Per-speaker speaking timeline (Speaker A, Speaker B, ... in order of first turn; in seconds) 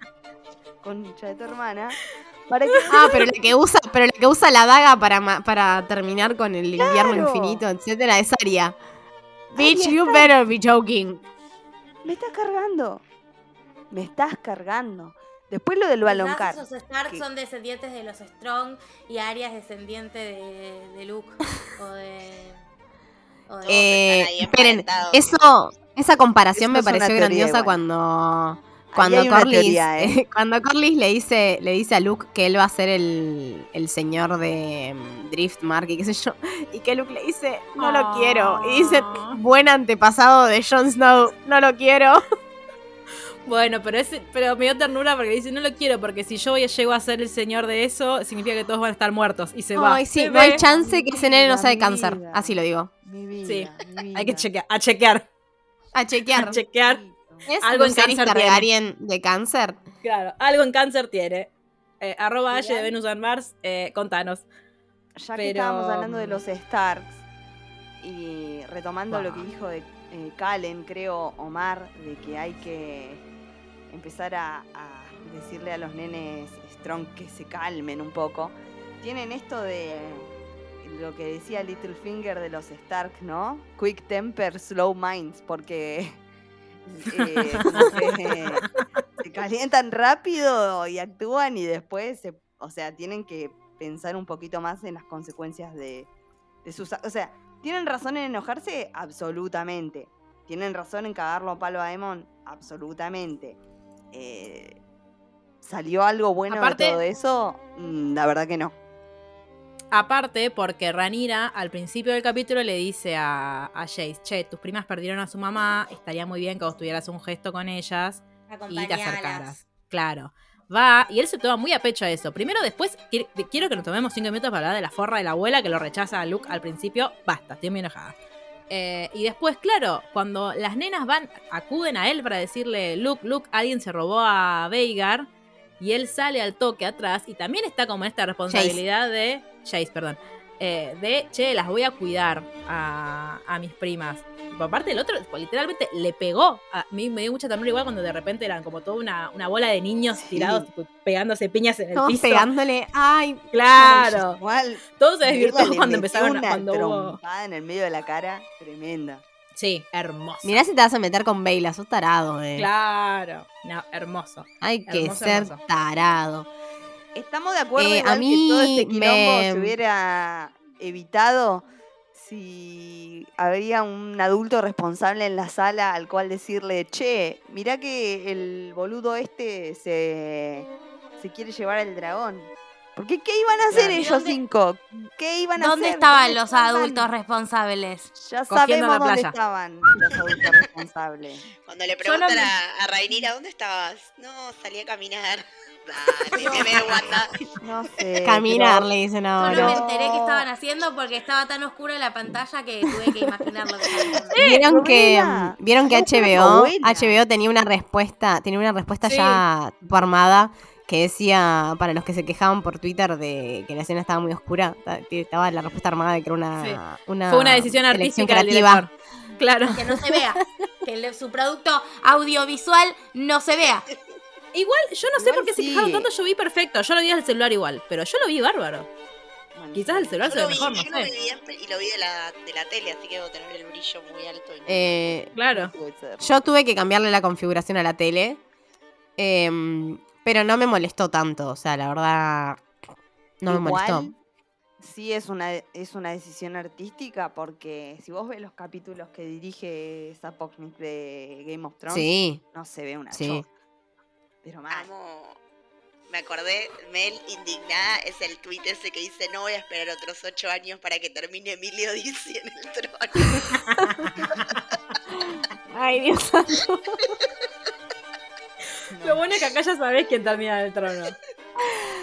Speaker A: 0.8-3.3, 6.8-7.6, 9.6-10.3, 12.0-13.0, 13.9-17.2, 26.6-27.8, 28.9-30.2, 50.6-54.5, 56.8-57.5, 62.5-62.9, 65.2-67.2, 68.0-73.2, 73.9-80.3, 80.8-86.2, 86.9-88.7, 89.2-96.1, 96.7-103.6, 104.1-104.8, 105.6-108.7, 150.2-150.7, 153.8-159.2, 167.2-187.1, 188.2-191.5, 196.3-196.8, 197.6-200.5, 204.2-207.2, 225.2-226.1, 229.6-230.8, 235.5-236.2, 243.5-244.2, 244.8-253.5, 254.4-254.9, 268.9-269.2
Speaker B: 2.9-8.8, 9.5-11.2, 23.7-42.2, 49.8-52.9, 55.9-56.6, 57.5-59.8, 138.5-138.8, 151.9-154.2, 160.4-162.7, 164.6-166.5, 167.8-169.8, 198.2-199.8, 204.3-218.9, 234.7-235.3, 236.2-238.4, 239.2-242.6, 243.4-244.1, 251.9-252.4, 253.1-253.4, 263.8-264.0, 265.3-267.1
Speaker C: 16.0-22.6, 23.5-23.8, 118.5-119.6, 183.9-184.4, 185.6-188.1, 199.4-204.3, 219.7-223.9
Speaker D: 23.6-25.5, 191.7-197.3, 230.2-235.3, 254.7-255.4, 256.1-263.6
Speaker E: 37.8-39.4, 43.5-50.6, 53.5-55.3, 56.3-57.0, 57.6-58.7, 60.0-61.5, 62.0-64.5, 65.4-66.4, 69.1-69.5, 87.6-88.2, 106.5-107.0, 109.9-128.2, 128.7-135.3, 135.8-152.5, 153.5-154.4, 155.0-157.2, 159.6-160.6, 162.6-165.6, 183.7-184.0, 188.5-189.3, 192.0-192.5, 204.3-204.6, 209.1-209.4, 216.6-220.0, 224.5-228.9, 229.7-231.1, 235.3-235.7, 269.0-271.2